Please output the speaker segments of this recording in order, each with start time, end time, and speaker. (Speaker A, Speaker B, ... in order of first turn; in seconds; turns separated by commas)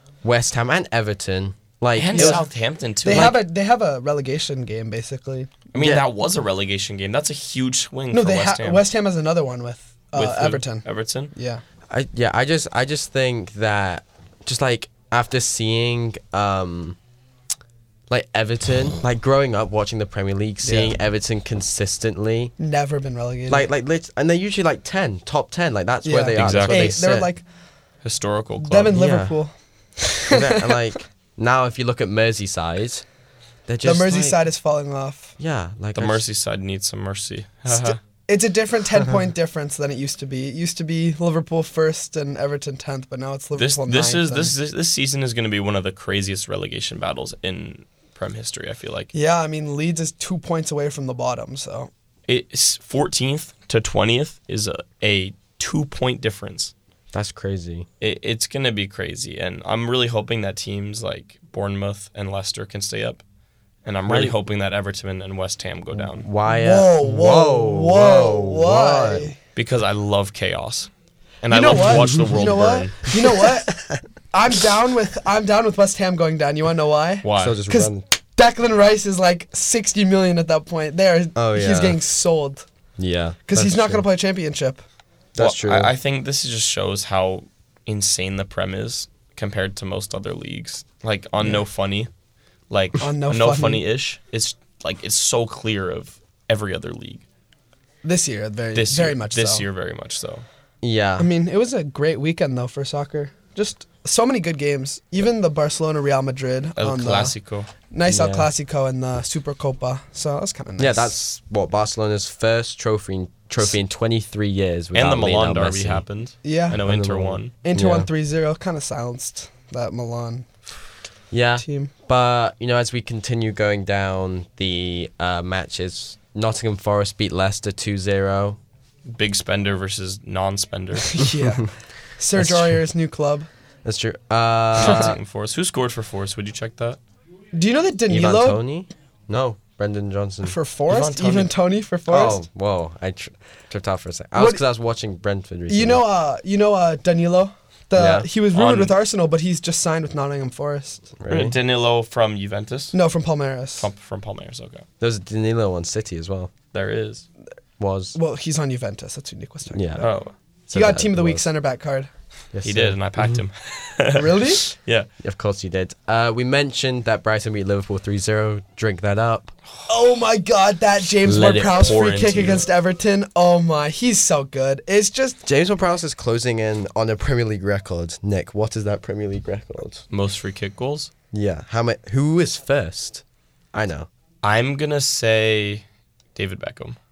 Speaker A: 0.2-2.4, Speaker B: 1.9-3.4, Speaker C: 2.1-2.4, Speaker C: 3.0-5.5, Speaker A: 3.1-3.4, Speaker B: 5.7-8.8, Speaker A: 5.8-6.0, Speaker C: 8.1-11.6, Speaker B: 10.1-11.3, Speaker A: 11.9-17.0, Speaker A: 18.1-22.5, Speaker C: 20.6-20.9, Speaker C: 22.6-23.7, Speaker A: 23.5-27.2, Speaker C: 26.0-27.4, Speaker B: 26.3-27.2, Speaker B: 28.0-28.9, Speaker C: 28.6-30.8, Speaker A: 28.9-29.4, Speaker A: 30.3-33.0, Speaker A: 33.7-34.4, Speaker C: 33.8-35.4, Speaker A: 35.4-36.2, Speaker B: 35.9-38.0, Speaker C: 37.7-44.5, Speaker B: 43.6-49.1, Speaker C: 49.1-51.9, Speaker B: 52.3-56.7, Speaker A: 57.1-57.9, Speaker B: 58.0-63.2, Speaker B: 63.8-66.2, Speaker A: 64.1-64.3, Speaker A: 65.9-69.3, Speaker C: 66.4-69.3, Speaker B: 69.5-70.9, Speaker B: 71.4-73.1, Speaker C: 71.5-73.8, Speaker A: 71.8-72.5, Speaker A: 73.1-74.0, Speaker C: 74.3-82.7, Speaker B: 77.2-77.6, Speaker A: 77.4-78.0, Speaker A: 81.3-82.0, Speaker A: 83.0-84.0, Speaker C: 83.5-84.8, Speaker A: 85.3-85.9, Speaker B: 85.4-92.1, Speaker B: 92.7-97.2, Speaker C: 93.0-93.8, Speaker C: 98.0-99.7, Speaker B: 98.7-100.4, Speaker A: 100.8-101.3, Speaker C: 101.2-107.3, Speaker B: 106.8-107.7, Speaker C: 107.9-111.1, Speaker A: 108.1-108.5, Speaker A: 110.8-116.0, Speaker B: 114.9-117.5, Speaker C: 116.4-116.8, Speaker A: 116.8-118.1, Speaker C: 117.6-120.5, Speaker A: 121.3-128.6, Speaker C: 121.6-121.9, Speaker B: 129.1-131.2, Speaker C: 131.1-133.5, Speaker A: 132.3-132.8, Speaker A: 133.8-135.2, Speaker B: 134.7-137.0, Speaker C: 134.8-135.1, Speaker C: 137.5-138.6, Speaker A: 138.1-140.6, Speaker C: 140.4-142.4, Speaker B: 140.9-141.5, Speaker A: 142.1-146.0, Speaker C: 144.3-144.6, Speaker C: 145.7-151.1, Speaker A: 147.9-148.3, Speaker B: 148.5-148.9, Speaker A: 151.2-151.6, Speaker B: 151.3-152.9, Speaker C: 152.9-153.9, Speaker B: 153.8-154.8, Speaker A: 155.0-156.5, Speaker B: 156.7-157.3, Speaker A: 157.8-158.2, Speaker C: 158.2-160.1, Speaker A: 159.7-160.1, Speaker B: 160.0-160.3, Speaker A: 160.7-161.4, Speaker C: 160.7-162.1, Speaker A: 162.5-163.4, Speaker B: 162.6-165.1, Speaker C: 164.1-164.6, Speaker A: 165.2-169.5, Speaker C: 169.9-175.4, Speaker A: 171.2-172.0, Speaker B: 171.6-172.6, Speaker A: 175.4-180.0, Speaker B: 180.1-181.1, Speaker A: 181.3-184.1, Speaker B: 184.4-187.0